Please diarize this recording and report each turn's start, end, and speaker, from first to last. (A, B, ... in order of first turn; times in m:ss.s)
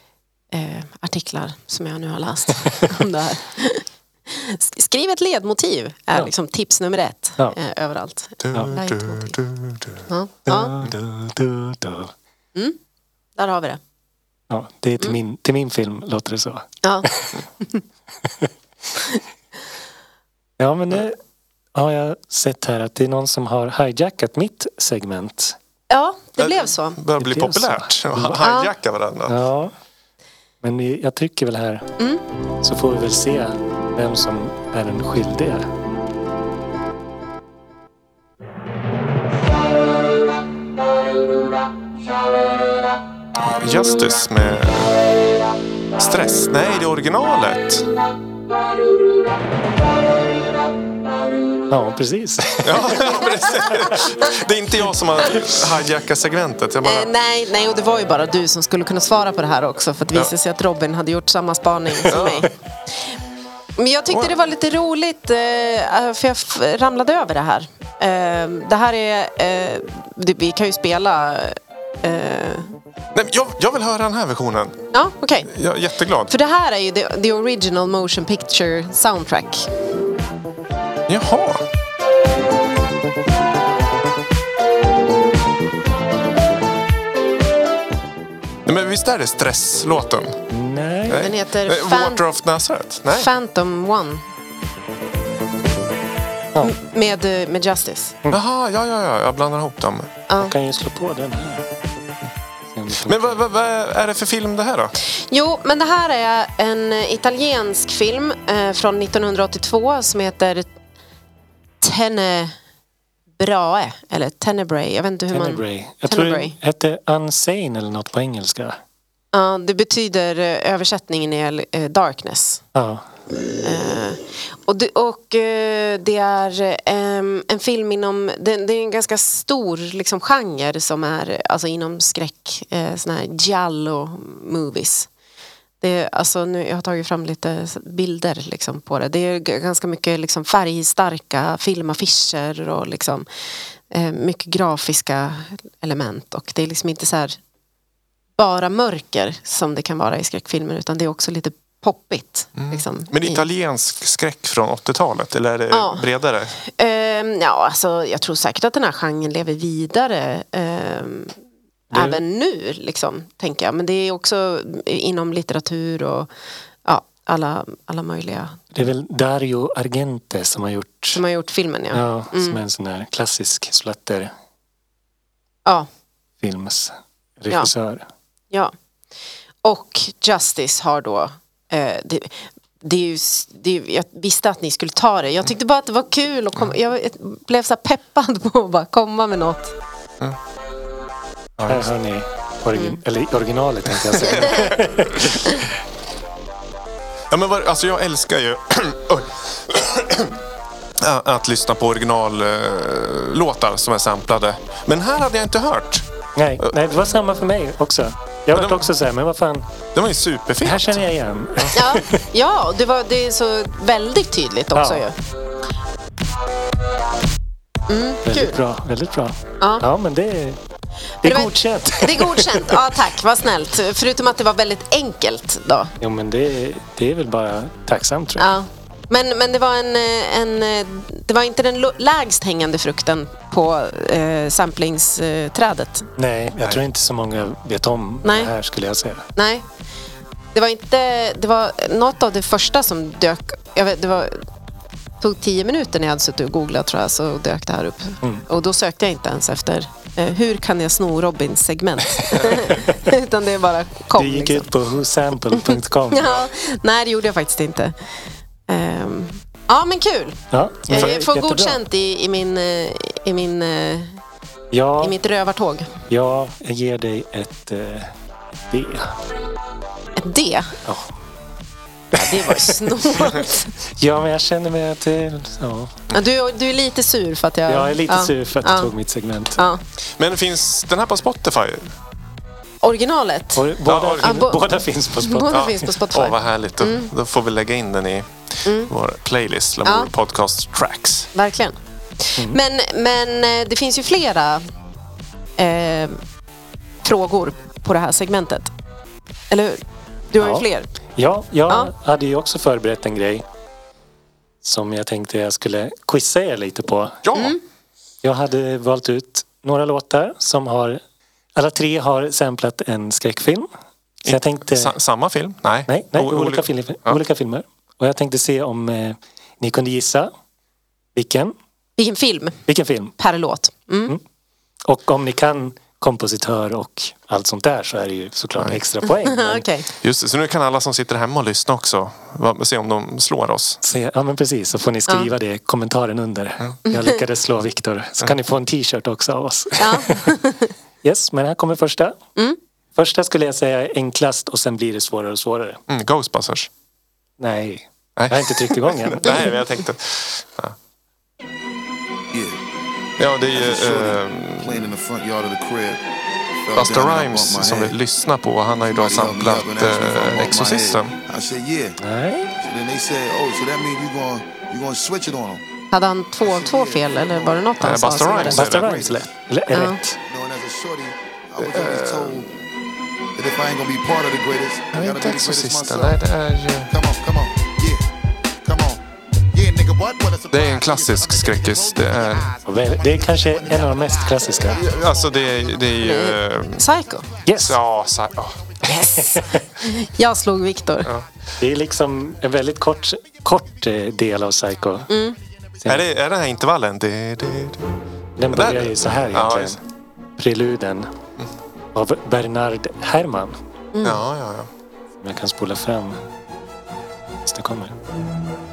0:00.5-0:09.4 A
0:08.4-0:10.1 B
0:10.1-0:10.7 A
0:10.5-0:12.1 C
0:13.4-0:13.8 A
0:14.5-0:17.4 C
0:16.8-0:17.8 A
0:18.2-0:18.5 C
0:20.6-0:21.2 C
0:21.7-0:25.6 C
0:25.9-0:27.0 A
0:26.4-0:29.4 B
0:27.2-0:28.4 C
0:28.4-0:28.7 A
0:29.3-0:29.7 C
0:30.6-0:31.9 C
0:32.6-0:35.7 C
0:43.4-0:45.0 B
0:46.0-0:47.9 B
0:51.7-0:54.0 C
0:52.6-0:57.1 B
0:56.8-1:02.5 A
1:02.1-1:02.5 B
1:03.8-1:12.7 A
1:13.1-1:14.8 B
1:14.9-1:15.5 A
1:15.5-1:16.3 B
1:16.3-1:19.7 A
1:21.1-1:21.6 B
1:28.6-1:30.4 B
1:30.5-1:31.3 C
1:31.1-1:33.3 B
1:31.2-1:32.2 A
1:33.1-1:34.2 A
1:36.6-1:38.2 A
1:38.3-1:40.1 B
1:40.3-1:40.5 A
1:40.4-1:41.7 C
1:42.7-1:43.4 C
1:43.0-1:44.9 B
1:45.0-1:50.7 A
1:51.8-1:52.5 A
1:53.4-1:56.6 A
1:55.3-1:58.8 C
1:59.3-2:02.6 A
2:02.7-2:03.0 C
2:03.6-2:15.1 A
2:15.8-2:23.3 A
2:23.9-2:27.4 A
2:28.4-2:33.4 A
2:32.6-2:36.5 B
2:35.7-2:36.0 A
2:36.6-2:41.4 A
2:41.9-2:46.3 A
2:41.9-2:42.2 C
2:46.8-2:48.6 A
2:48.7-2:51.2 C
2:51.1-2:52.6 A
2:51.9-2:54.3 C
2:56.4-2:58.0 C
2:59.6-3:09.7 A
3:11.6-3:11.9 B
3:11.6-3:15.7 C
3:13.9-3:15.3 B
3:14.4-3:14.7 A
3:17.3-3:20.4 B
3:21.0-3:26.0 B
3:26.4-3:29.7 C
3:28.5-3:28.9 B
3:29.9-3:31.8 B
3:30.6-3:32.2 C
3:31.7-3:35.1 A
3:34.7-3:35.0 C
3:37.9-3:38.6 A
3:38.2-3:40.6 C
3:39.6-3:39.8 A
3:41.2-3:42.9 C
3:41.2-3:45.9 A
3:46.0-3:48.5 C
3:48.4-3:56.1 A
3:56.2-3:59.2 C
3:58.2-3:58.5 A
3:59.4-3:59.6 A
4:00.5-4:04.4 A
4:05.2-4:14.7 A
4:12.3-4:13.0 C
4:14.1-4:16.3 C
4:15.5-4:18.2 A
4:18.7-4:24.2 A
4:20.5-4:21.8 C
4:24.7-4:25.2 C
4:25.0-4:25.9 A
4:26.1-4:28.1 C
4:28.7-4:29.2 C
4:30.2-4:30.8 A
4:30.8-4:31.1 C
4:32.1-4:33.7 A
4:32.2-4:32.9 C
4:33.8-4:36.0 C
4:36.1-4:38.9 A
4:37.7-4:39.6 C
4:40.2-4:41.9 B
4:42.8-4:43.7 A
4:43.6-4:45.8 C
4:43.8-4:44.4 B
4:44.2-4:44.6 A
4:45.2-4:47.1 A
4:45.5-4:51.3 B
4:48.6-4:48.9 A
4:49.8-4:50.1 A
4:51.3-4:54.6 A
4:55.6-4:56.2 A
4:57.0-4:58.7 A
4:59.5-5:00.9 A
5:00.4-5:00.6 C
5:01.2-5:03.4 C
5:04.6-5:07.2 C
5:07.2-5:07.6 B
5:07.3-5:07.6 A
5:08.2-5:11.0 C
5:11.5-5:13.7 C
5:14.2-5:14.9 C
5:14.2-5:17.2 B
5:15.9-5:20.3 C
5:21.1-5:21.5 C
5:22.0-5:22.6 A
5:22.7-5:23.1 C
5:23.2-5:24.2 A
5:24.8-5:29.6 C
5:29.0-5:29.9 A
5:30.0-5:33.8 B
5:33.8-5:40.4 C
5:36.9-5:37.2 A
5:39.8-5:40.7 A
5:41.0-5:42.2 C
5:43.0-5:45.8 C
5:45.9-5:46.7 B
5:47.4-5:49.5 C
5:48.2-5:50.8 B
5:52.3-5:52.6 D
5:53.2-5:54.8 B
5:53.5-5:56.0 D
5:56.6-5:58.0 D
5:56.8-6:01.1 B
5:58.7-6:02.0 D
6:02.0-6:02.5 C
6:02.6-6:05.6 D
6:05.9-6:08.6 A
6:06.4-6:09.2 D
6:07.8-6:09.1 B
6:08.5-6:10.2 C
6:09.7-6:10.0 A
6:10.2-6:12.5 D
6:11.6-6:12.5 B
6:13.4-6:16.2 D
6:14.9-6:16.9 B
6:16.9-6:18.0 D
6:18.6-6:25.9 D
6:20.5-6:22.5 B
6:22.6-6:24.8 C
6:24.7-6:26.8 B
6:26.0-6:27.3 A
6:27.4-6:27.8 C
6:27.6-6:28.6 B
6:28.8-6:31.1 A
6:29.1-6:29.6 C
6:31.6-6:35.1 C
6:35.1-6:35.4 A
6:35.8-6:37.9 B
6:38.4-6:39.8 C
6:38.5-6:39.8 B
6:40.4-6:41.1 C
6:41.9-6:43.6 C
6:43.9-6:44.2 A
6:44.0-6:44.7 B
6:45.2-6:46.2 C
6:47.4-6:47.9 C